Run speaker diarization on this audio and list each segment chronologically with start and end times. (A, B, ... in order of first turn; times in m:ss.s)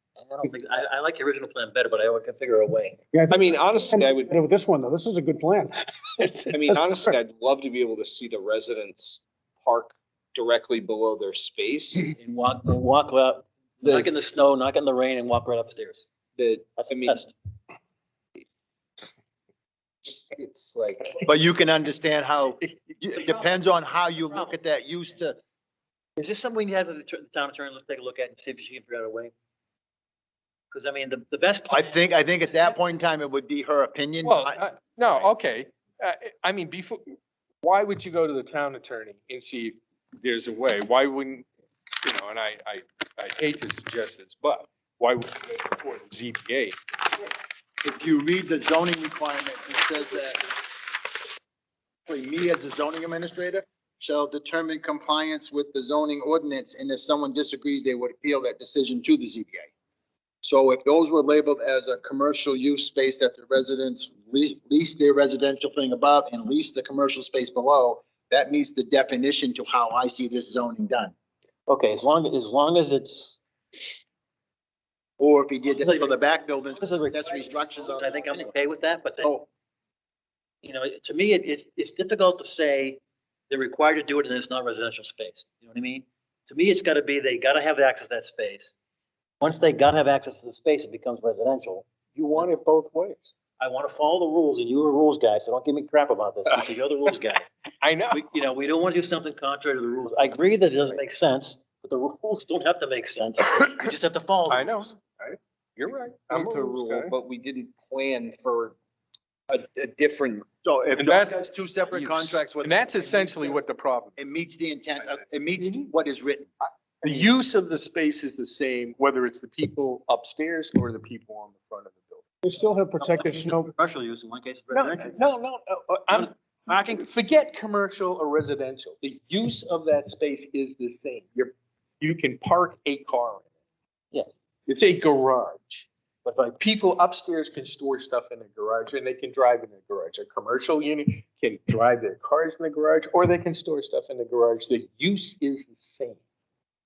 0:00.2-0:03.0 A
0:03.1-0:07.1 B
0:03.3-0:04.3 C
0:06.5-0:12.1 C
0:12.1-0:16.0 A
0:16.4-0:17.2 C
0:16.8-0:17.3 A
0:20.1-0:21.2 C
0:21.2-0:25.4 D
0:23.2-0:23.5 A
0:26.2-0:29.3 A
0:30.7-0:32.8 A
0:31.7-0:34.6 D
0:34.2-0:41.5 E
0:42.0-0:46.8 E
0:47.8-0:50.5 D
0:52.1-0:59.7 D
1:00.4-1:11.1 D
1:11.7-1:13.4 A
1:15.2-1:18.5 D
1:15.8-1:16.1 A
1:16.8-1:19.4 A
1:20.6-1:28.7 A
1:29.4-1:32.4 A
1:32.2-1:33.3 E
1:33.6-1:37.4 A
1:37.8-1:38.2 E
1:38.1-1:44.8 A
1:44.5-1:45.1 E
1:45.8-1:48.7 C
1:46.1-1:47.1 E
1:49.5-1:50.5 C
1:50.6-1:53.6 D
1:51.0-1:54.2 E
1:54.2-1:56.5 D
1:56.6-2:02.2 E
2:02.4-2:03.7 B
2:03.0-2:05.3 A
2:04.7-2:13.4 E
2:06.2-2:07.0 A
2:14.7-2:15.9 E
2:16.2-2:16.6 A
2:16.5-2:26.2 E